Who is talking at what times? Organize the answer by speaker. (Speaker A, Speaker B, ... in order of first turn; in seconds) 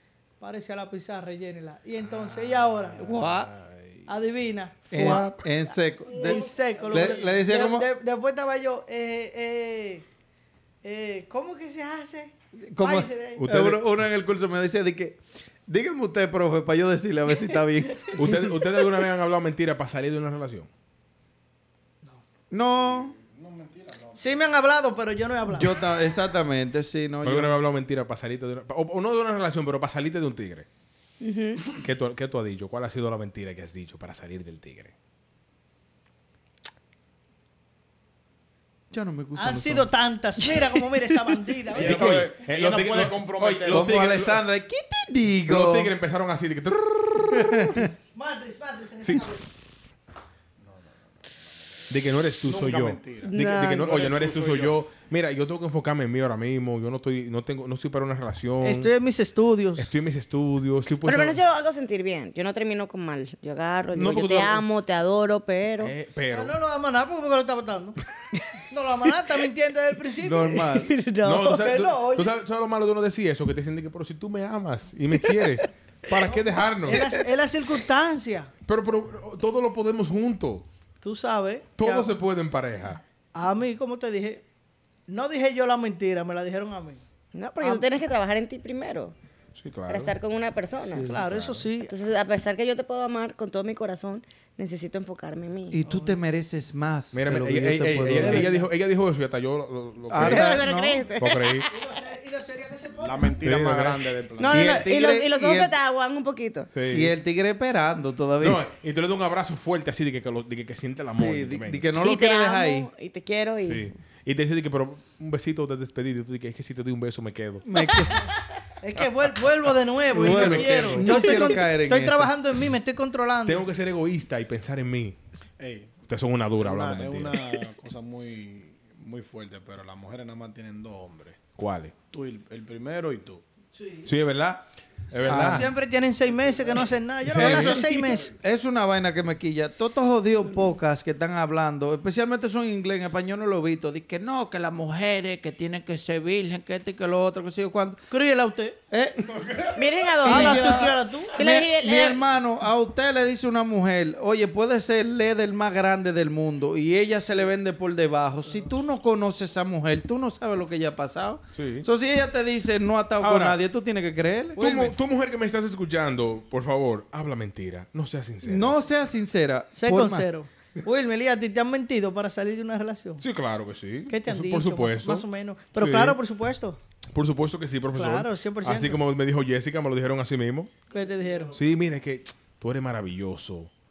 Speaker A: 0.4-3.1, 4.1-5.3, 6.1-10.1, 10.8-13.4, 24.1-25.8, 39.4-42.1, 48.1-49.5, 58.6-59.9, 66.3-68.0, 68.7-70.7, 71.5-72.3, 76.2-78.5, 81.0-82.1, 83.3-84.4, 85.1-87.0, 91.0-91.9, 95.9-96.2, 98.2-98.6, 101.6-103.4, 118.8-123.7, 133.8-134.1, 135.2-138.3, 148.1-148.8, 150.2-151.3, 164.6-164.9, 169.7-173.2, 174.1-176.8, 177.9-179.0, 180.9-181.5
Speaker B: 3.0-3.5, 4.9-7.9, 12.6-18.5, 22.5-23.1, 25.5-27.6, 38.9-39.9, 43.7-45.9, 47.3-47.9, 70.2-70.9, 95.7-98.7, 100.1-101.0, 104.5-105.7, 106.9-108.7, 111.1-112.9, 117.6-118.2, 120.1-122.3, 135.2-135.7, 137.4-148.0, 148.9-149.6, 150.2-164.6, 168.4-170.3
Speaker C: 3.0-3.3, 4.9-5.5, 13.3-13.8, 18.1-20.7, 27.2-30.6, 31.7-34.9, 41.7-44.4, 45.5-47.9, 49.0-49.3, 51.9-58.9, 59.8-61.4, 63.9-64.6, 65.8-66.5, 71.2-77.0, 78.7-80.7, 81.8-83.0, 89.5-90.1, 91.0-91.7, 97.1-100.6, 101.2-101.7, 103.4-104.1, 106.7-107.1, 108.4-111.9, 113.6-117.6, 120.2-121.5, 123.5-125.2, 126.1-127.5, 131.6-131.9, 134.0-135.7, 137.2-137.9, 161.5-161.9, 163.2-163.6, 164.6-168.8, 173.2-175.2, 175.8-176.2, 177.0-180.7, 181.5-183.7
Speaker D: 23.1-24.2, 41.7-43.9, 50.6-50.9, 52.4-54.8, 103.0-104.8, 125.6-125.9, 126.6-131.4, 132.1-133.4
Speaker E: 31.2-31.8, 53.2-53.9, 61.0-65.9, 70.7-71.7, 76.9-77.2, 87.3-89.1, 89.9-91.2, 91.8-95.8, 100.2-101.7, 104.4-106.7, 111.9-113.9, 149.7-152.2